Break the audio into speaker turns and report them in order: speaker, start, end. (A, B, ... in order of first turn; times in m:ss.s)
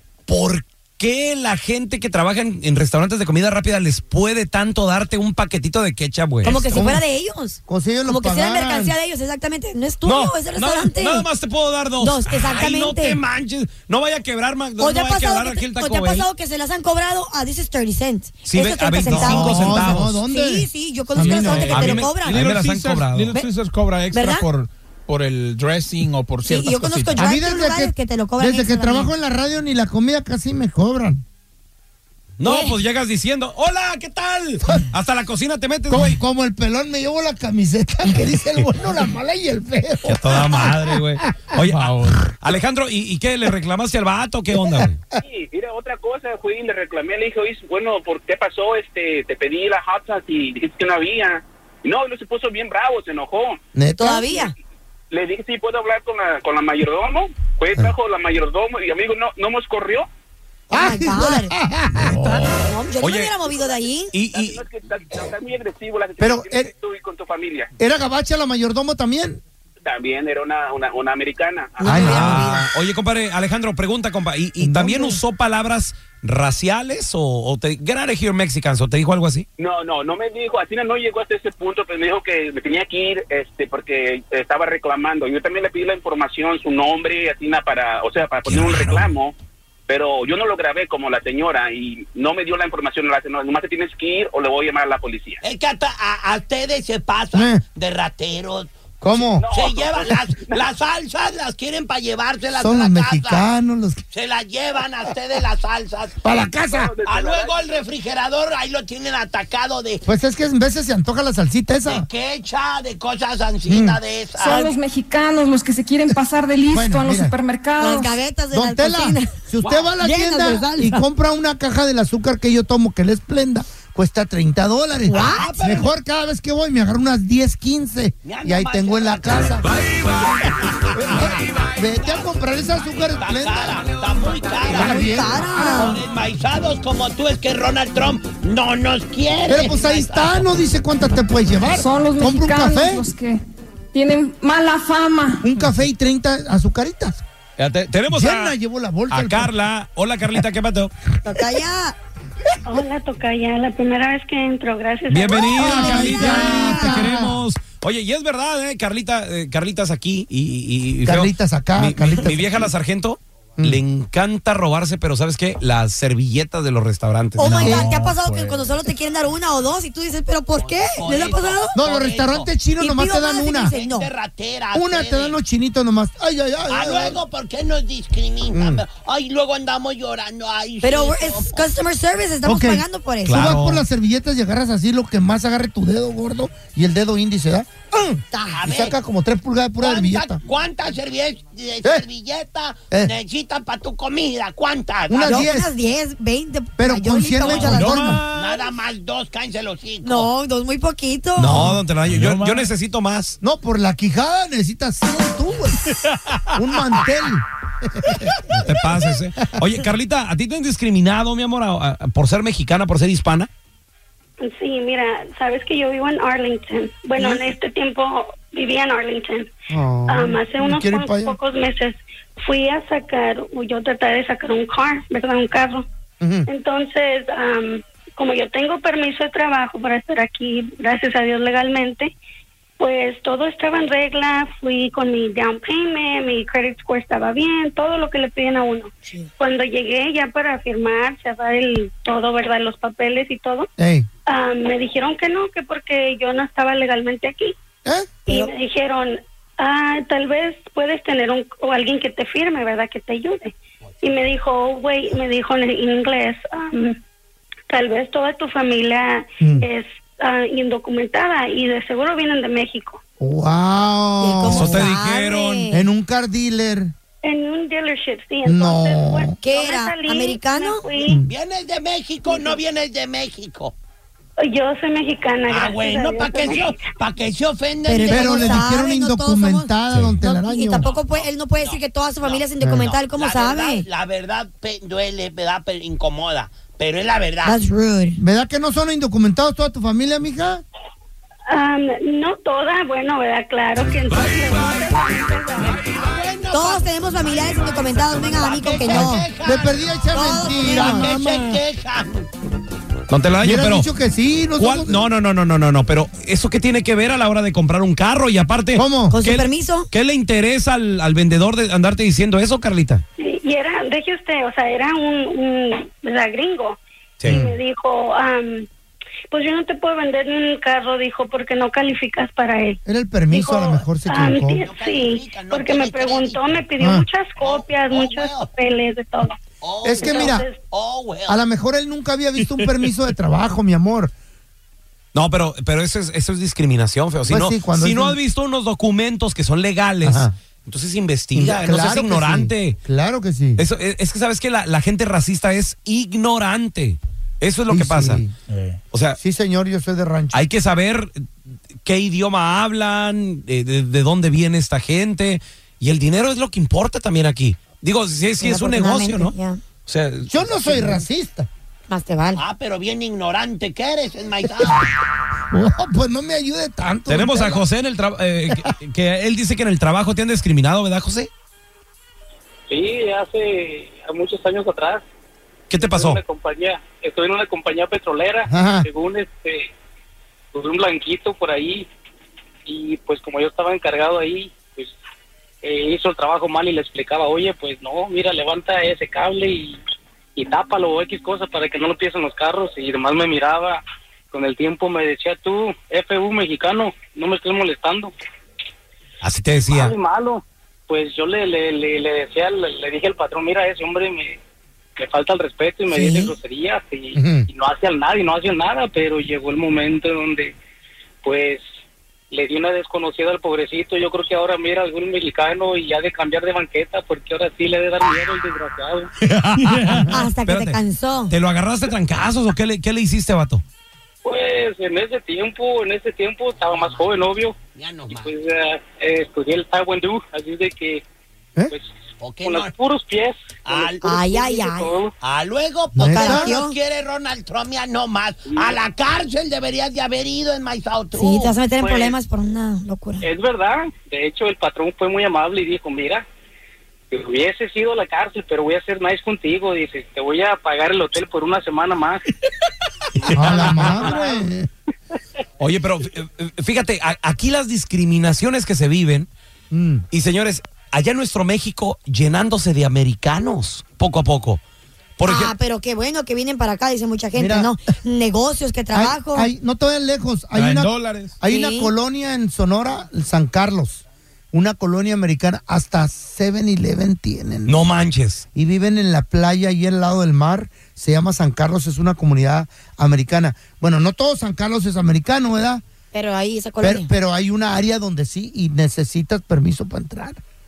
0:00.3-0:06.6 A
0:06.4-0:11.2 B
0:06.4-0:07.0 C
0:07.6-0:08.9 C
0:10.0-0:16.3 A
0:12.0-0:13.2 B
0:14.8-0:22.4 B
0:18.4-0:20.2 A
0:19.1-0:22.0 C
0:21.1-0:27.3 D
0:21.5-0:23.3 A
0:24.1-0:24.4 B
0:26.4-0:29.1 B
0:27.2-0:31.2 C
0:32.4-0:36.2 A
0:32.4-0:32.7 B
0:35.9-0:41.1 C
0:40.0-0:45.0 A
0:41.6-0:42.3 D
0:44.6-0:44.9 C
0:45.2-0:53.6 E
0:53.7-0:54.3 C
0:54.0-0:54.5 B
0:55.1-1:00.1 E
1:00.7-1:01.5 B
1:00.7-1:02.5 C
1:02.0-1:02.4 D
1:02.5-1:04.1 B
1:03.0-1:03.4 A
1:04.1-1:04.6 A
1:04.3-1:07.7 E
1:06.2-1:06.7 C
1:07.8-1:09.4 C
1:09.8-1:12.3 E
1:11.8-1:12.6 B
1:11.8-1:12.7 C
1:11.9-1:19.4 A
1:14.6-1:15.2 C
1:19.6-1:29.3 E
1:28.4-1:29.1 A
1:29.9-1:35.4 E
1:35.4-1:38.7 F
1:37.3-1:37.6 C
1:39.0-1:39.4 C
1:39.4-1:40.6 E
1:39.5-1:43.4 F
1:42.5-1:44.0 C
1:44.1-1:46.2 F
1:46.2-1:46.9 C
1:46.7-1:47.7 E
1:47.0-1:50.0 F
1:50.0-1:52.0 C
1:51.9-1:54.7 F
1:53.6-1:54.0 C
1:54.4-1:58.1 G
1:56.7-1:57.3 C
1:57.8-1:59.3 B
1:58.5-2:09.6 C
1:59.6-1:59.9 F
1:59.9-2:01.0 B
2:05.1-2:05.6 B
2:05.1-2:05.9 F
2:08.2-2:12.3 F
2:10.9-2:13.8 C
2:13.0-2:20.4 F
2:14.7-2:15.4 C
2:14.7-2:16.0 B
2:19.5-2:23.1 C
2:21.7-2:23.4 G
2:23.9-2:25.5 G
2:25.4-2:27.2 C
2:27.6-2:28.5 A
2:28.1-2:29.5 C
2:29.1-2:30.9 A
2:31.2-2:32.0 B
2:32.6-2:36.2 H
2:35.1-2:47.7 A
2:35.3-2:37.4 C
2:35.7-2:37.0 B
2:41.0-2:42.7 C
2:47.4-2:51.8 B
2:47.4-2:48.9 D
2:47.4-2:47.9 C
2:50.6-2:52.5 F
2:51.7-2:53.7 C
2:52.8-2:54.1 B
2:53.6-2:55.4 F
2:54.7-2:57.2 C
2:56.7-3:01.7 F
2:58.5-2:58.8 C
3:00.8-3:03.5 B
3:02.4-3:10.4 C
3:03.2-3:03.8 A
3:08.3-3:08.6 B
3:08.5-3:08.9 F
3:09.8-3:15.5 F
3:15.1-3:15.7 C
3:15.2-3:18.1 B
3:16.8-3:18.2 C
3:17.4-3:18.7 A
3:17.5-3:17.8 F
3:18.3-3:20.3 F
3:20.0-3:21.7 B
3:21.4-3:23.4 A
3:21.5-3:21.8 C
3:22.0-3:22.7 D
3:23.4-3:25.8 C
3:26.5-3:28.7 C
3:28.4-3:33.5 A
3:34.4-3:39.5 H
3:39.7-3:41.4 C
3:40.1-3:45.8 H
3:46.2-3:46.5 C
3:46.5-3:52.1 H
3:52.8-4:03.7 H
4:03.8-4:04.1 C
4:04.3-4:07.5 H
4:07.8-4:08.2 C
4:08.3-4:17.0 H
4:17.7-4:23.0 H
4:23.2-4:24.9 C
4:24.2-4:25.8 B
4:24.5-4:25.7 A
4:25.7-4:26.9 C
4:27.2-4:31.2 H
4:28.4-4:29.4 C
4:29.4-4:30.8 B
4:31.0-4:31.3 C
4:31.2-4:33.7 F
4:34.4-4:36.9 H
4:35.5-4:38.7 F
4:37.8-4:43.9 B
4:38.1-4:40.9 C
4:39.9-4:40.2 D
4:40.8-4:47.6 F
4:42.6-4:42.9 C
4:47.4-4:48.2 B
4:48.2-4:50.6 C
4:51.5-4:55.6 H
4:55.6-5:02.3 F
4:56.5-4:59.3 B
4:58.8-5:01.6 C
5:00.1-5:01.1 B
5:03.1-5:03.8 A
5:03.4-5:05.0 C
5:04.6-5:13.0 A
5:08.7-5:09.2 C
5:09.1-5:09.9 B
5:13.2-5:18.7 H
5:17.3-5:17.5 C
5:19.3-5:22.8 H
5:22.8-5:24.6 C
5:23.3-5:29.4 H
5:24.1-5:26.6 F
5:26.8-5:27.0 C
5:27.4-5:28.5 F
5:29.6-5:31.4 F
5:29.8-5:30.4 C
5:30.0-5:30.6 H
5:31.3-5:34.1 C
5:32.4-5:32.9 D
5:35.1-5:42.8 A
5:37.3-5:38.2 C
5:40.0-5:40.3 C
5:41.3-5:43.6 C
5:43.6-5:48.2 A
5:47.7-5:48.3 C
5:48.5-5:48.8 D
5:48.9-5:49.2 A
5:49.2-5:50.4 C
5:50.3-5:51.3 A
5:51.8-5:59.3 A
5:58.4-5:59.6 B
5:59.8-6:01.0 A
6:00.2-6:01.5 C
6:01.9-6:02.4 B
6:02.4-6:04.9 F
6:04.6-6:04.8 C
6:05.5-6:07.6 C
6:07.1-6:11.3 A
6:12.7-6:15.0 I
6:15.7-6:16.2 A
6:15.8-6:19.7 I
6:18.5-6:18.9 C
6:20.5-6:21.9 I
6:22.6-6:24.9 I
6:25.6-6:29.8 I
6:30.4-6:33.8 I
6:34.3-6:38.1 I
6:39.2-6:39.9 A
6:39.7-6:44.4 I
6:45.0-6:50.5 I
6:45.9-6:46.3 B
6:47.1-6:47.5 C
6:51.2-6:51.6 I
6:52.3-6:59.1 I
6:59.2-7:00.8 A
6:59.6-7:00.1 D
7:00.1-7:01.3 B
7:01.3-7:03.6 A
7:04.2-7:07.6 I
7:06.7-7:08.3 F
7:08.1-7:11.0 I
7:12.2-7:12.7 F
7:12.4-7:15.1 I
7:13.6-7:14.5 F
7:14.0-7:15.0 B
7:15.2-7:21.5 F
7:15.9-7:16.6 C
7:16.0-7:16.8 B
7:18.5-7:18.8 I
7:21.1-7:23.2 B
7:21.8-7:22.2 I
7:23.2-7:26.2 I
7:27.1-7:32.2 I
7:33.2-7:34.5 I
7:33.3-7:34.7 C
7:33.5-7:34.0 A
7:35.6-7:39.3 A
7:39.7-7:40.0 C
7:40.1-7:44.6 A
7:45.2-7:45.5 A
7:45.2-7:49.5 B
7:47.4-7:47.7 C
7:48.9-7:57.8 C
7:50.5-7:51.4 D
7:51.4-7:51.9 B
7:57.6-7:58.4 A
7:58.5-8:05.8 C
8:06.1-8:07.1 B
8:06.8-8:10.4 C